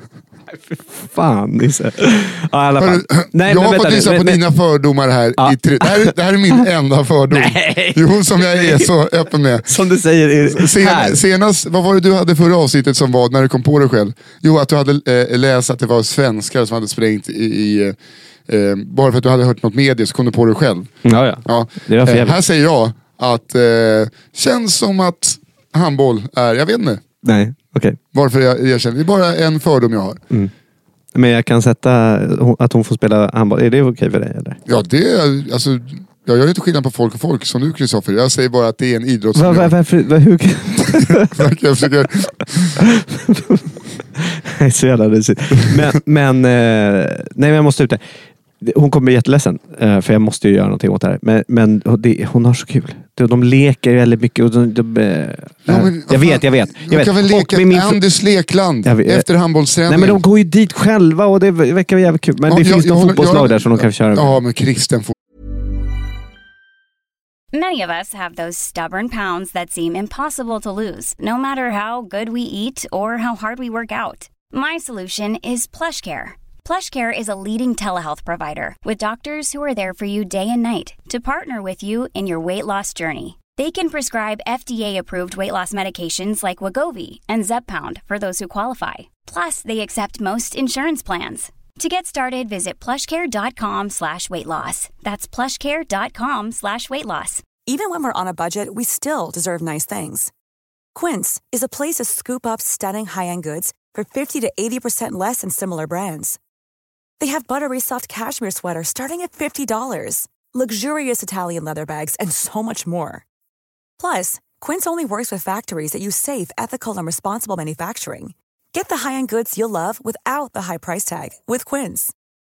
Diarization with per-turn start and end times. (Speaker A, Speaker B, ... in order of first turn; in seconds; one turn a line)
Speaker A: 0.5-4.4
Speaker B: 2.8-9.7
Speaker A: 5.4-6.6
Speaker A: 7.3-8.9
Speaker A: 9.6-11.2
Speaker B: 10.4-20.9
Speaker A: 21.0-22.4
Speaker B: 21.4-27.0
Speaker A: 27.2-28.0
Speaker B: 28.1-30.2
Speaker A: 31.1-34.6
Speaker B: 34.6-39.7
Speaker A: 39.3-41.4
Speaker B: 40.9-42.8
Speaker A: 42.8-48.0
Speaker A: 48.6-58.0
Speaker B: 55.7-60.2
Speaker A: 58.9-59.2
Speaker A: 59.9-64.4
Speaker B: 62.5-65.1
Speaker C: 67.5-97.4
Speaker D: 97.7-100.3
Speaker D: 100.9-106.4
Speaker D: 107.2-113.2
Speaker D: 114.0-122.1